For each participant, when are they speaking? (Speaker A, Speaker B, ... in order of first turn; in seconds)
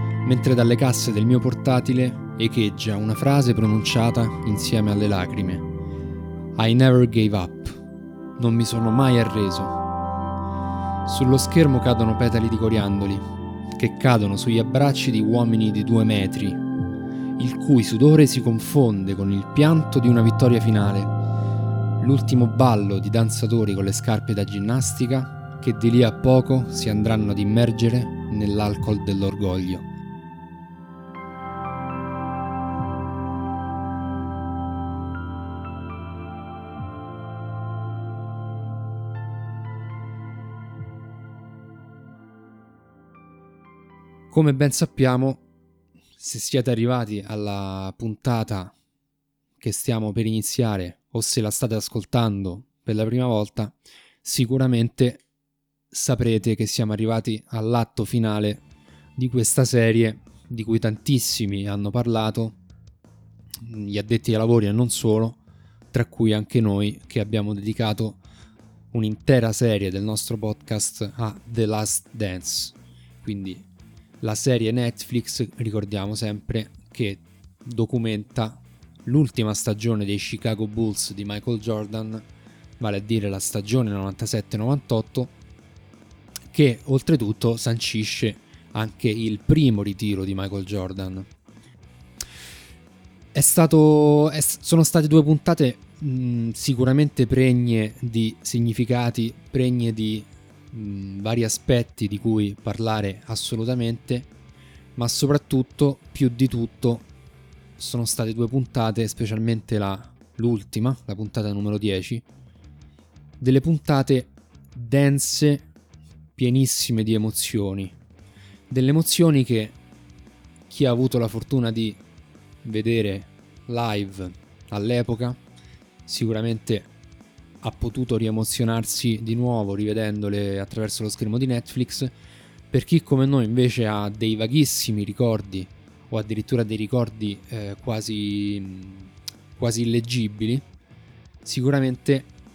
Speaker A: 0.2-5.7, 6.6-7.8, 8.4-9.8, 11.1-16.6, 17.4-21.1, 22.0-29.9, 44.3-45.4, 46.2-48.8, 49.6-55.2, 55.9-58.6, 59.2-62.6, 63.6-65.4, 65.9-68.2, 68.9-73.7, 74.2-82.2, 82.8-85.3, 86.5-91.3, 93.3-104.3, 105.0-107.1, 107.8-112.2, 113.4-115.7, 116.4-118.0, 118.7-119.8, 120.7-122.0, 122.6-125.4, 126.1-126.9, 127.6-132.1, 132.7-140.7, 141.4-142.3